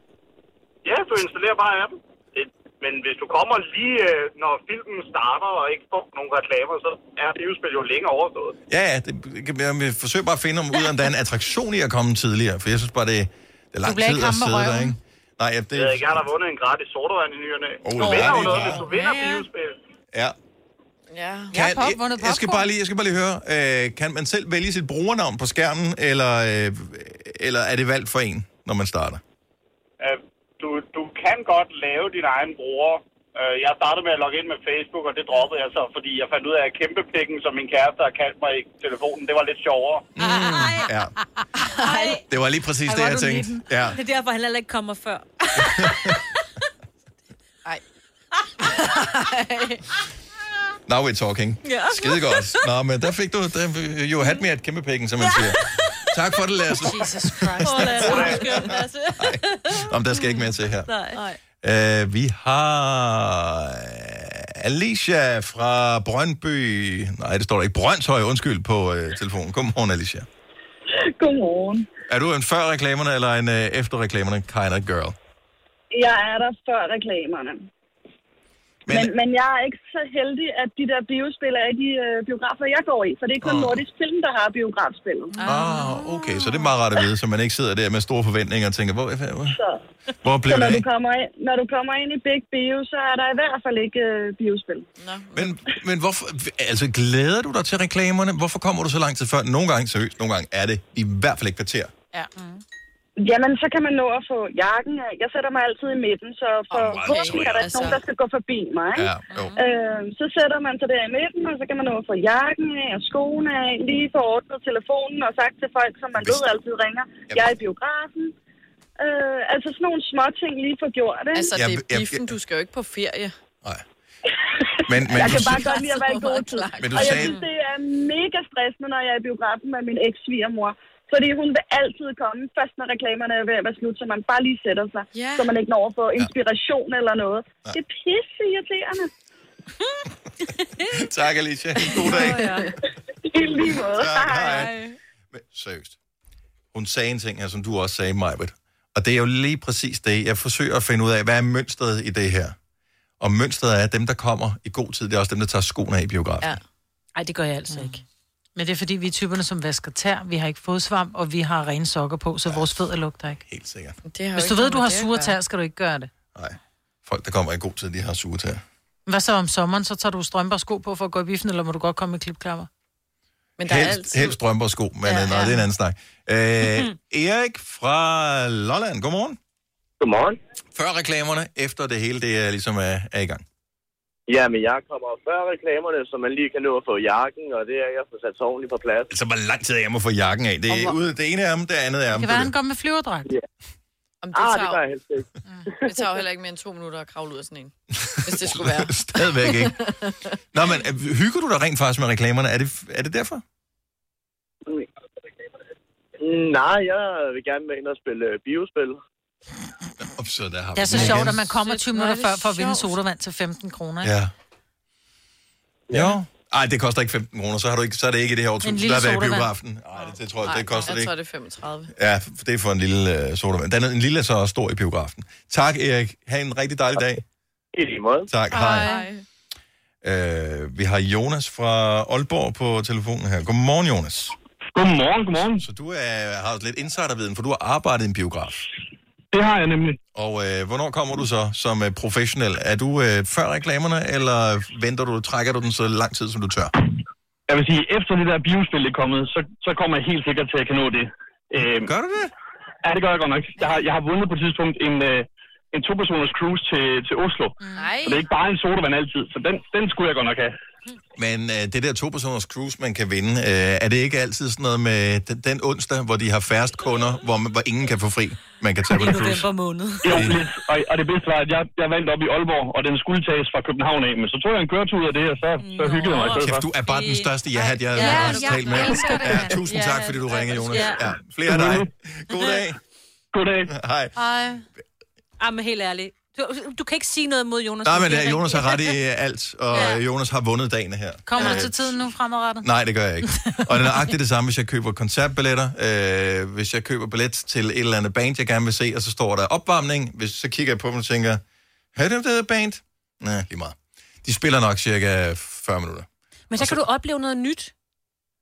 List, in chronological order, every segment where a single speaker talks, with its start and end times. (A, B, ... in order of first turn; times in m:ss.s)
0:00.8-0:08.6 A
0:08.7-0:16.2 B
0:13.8-0:15.0 C
0:15.7-0:19.8 A
0:17.8-0:18.9 B
0:18.0-0:19.4 C
0:21.1-0:21.5 D
0:21.5-0:22.7 C
0:21.5-0:29.2 B
0:30.0-0:40.1 A
0:40.2-0:41.1 B
0:40.2-0:40.9 E
0:41.7-0:42.2 D
0:41.8-0:42.2 E
0:42.3-0:44.0 B
0:42.9-0:46.2 E
0:43.0-0:43.4 C
0:45.6-0:46.2 B
0:48.6-0:49.8 D
0:50.9-1:00.9 B
0:51.6-0:52.6 E
0:55.2-0:55.9 E
0:56.8-0:58.7 C
0:57.6-1:01.4 E
1:01.6-1:10.3 B
1:10.9-1:11.9 F
1:12.1-1:15.2 B
1:15.9-1:17.7 F
1:18.9-1:19.1 B
1:18.9-1:25.4 F
1:23.4-1:23.8 B
1:25.4-1:25.8 D
1:25.4-1:29.6 B
1:29.5-1:29.8 F
1:30.2-1:30.9 B
1:30.4-1:34.9 F
1:35.0-1:35.6 D
1:35.4-1:41.9 B
1:43.2-1:58.3 F
1:46.7-1:48.0 D
1:46.7-1:48.0 B
1:49.0-1:49.5 B
1:49.3-1:49.6 E
1:56.2-1:56.5 B
1:57.3-1:57.6 B
1:59.0-2:01.5 F
2:01.3-2:03.3 D
2:01.5-2:02.4 B
2:04.9-2:05.7 B
2:05.0-2:07.4 D
2:05.1-2:19.1 F
2:06.8-2:07.4 B
2:15.1-2:15.5 D
2:20.9-2:22.6 B
2:21.8-2:22.8 D
2:22.1-2:22.7 E
2:23.2-2:24.7 F
2:24.0-2:24.8 B
2:24.3-2:25.0 D
2:25.3-2:26.0 B
2:26.7-2:32.6 B
2:33.2-2:36.6 B
2:37.2-2:38.0 E
2:37.7-2:38.0 C
2:38.6-2:43.4 C
2:42.5-2:42.7 B
2:43.5-2:44.0 B
2:44.1-2:45.4 D
2:44.4-2:46.1 C
2:46.4-2:48.6 B
2:49.1-2:52.7 C
2:53.6-2:54.4 D
2:53.6-2:59.4 B
2:55.0-2:55.7 D
3:00.0-3:00.4 G
3:00.7-3:03.4 B
3:04.3-3:09.1 G
3:09.1-3:12.5 B
3:12.1-3:13.3 C
3:14.2-3:14.8 D
3:14.3-3:15.3 G
3:15.8-3:20.2 D
3:18.1-3:19.8 B
3:20.5-3:23.4 B
3:26.2-3:29.0 G
3:30.2-3:31.5 B
3:30.8-3:34.2 C
3:30.9-3:33.0 D
3:34.0-3:34.3 B
3:35.9-3:36.2 G
3:35.9-3:41.1 B
3:38.6-3:39.5 C
3:40.4-3:41.9 D
3:41.9-3:47.2 B
3:47.7-3:48.3 G
3:48.3-3:48.9 B
3:48.5-3:49.2 D
3:50.0-3:54.4 B
3:54.8-3:55.6 H
3:55.6-3:58.7 B
3:59.3-4:00.0 H
4:00.2-4:06.7 B
4:07.5-4:11.9 H
4:11.8-4:12.3 B
4:12.8-4:20.6 H
4:17.6-4:18.0 C
4:17.8-4:18.3 D
4:21.2-4:29.5 B
4:28.9-4:30.3 E
4:30.0-4:36.6 H
4:30.1-4:30.4 B
4:35.6-4:39.4 E
4:36.3-4:42.8 B
4:38.0-4:39.7 C
4:39.6-4:40.9 D
4:40.7-4:41.0 E
4:41.5-4:41.9 H
4:43.3-4:43.7 H
4:43.7-4:44.2 B
4:44.2-4:44.6 C
4:45.4-4:48.9 E
4:47.8-4:52.1 B
4:49.7-4:50.0 E
4:51.3-4:52.7 C
4:51.4-4:51.7 E
4:52.6-5:01.4 B
4:53.4-4:54.0 C
5:01.9-5:06.8 B
5:06.5-5:07.7 E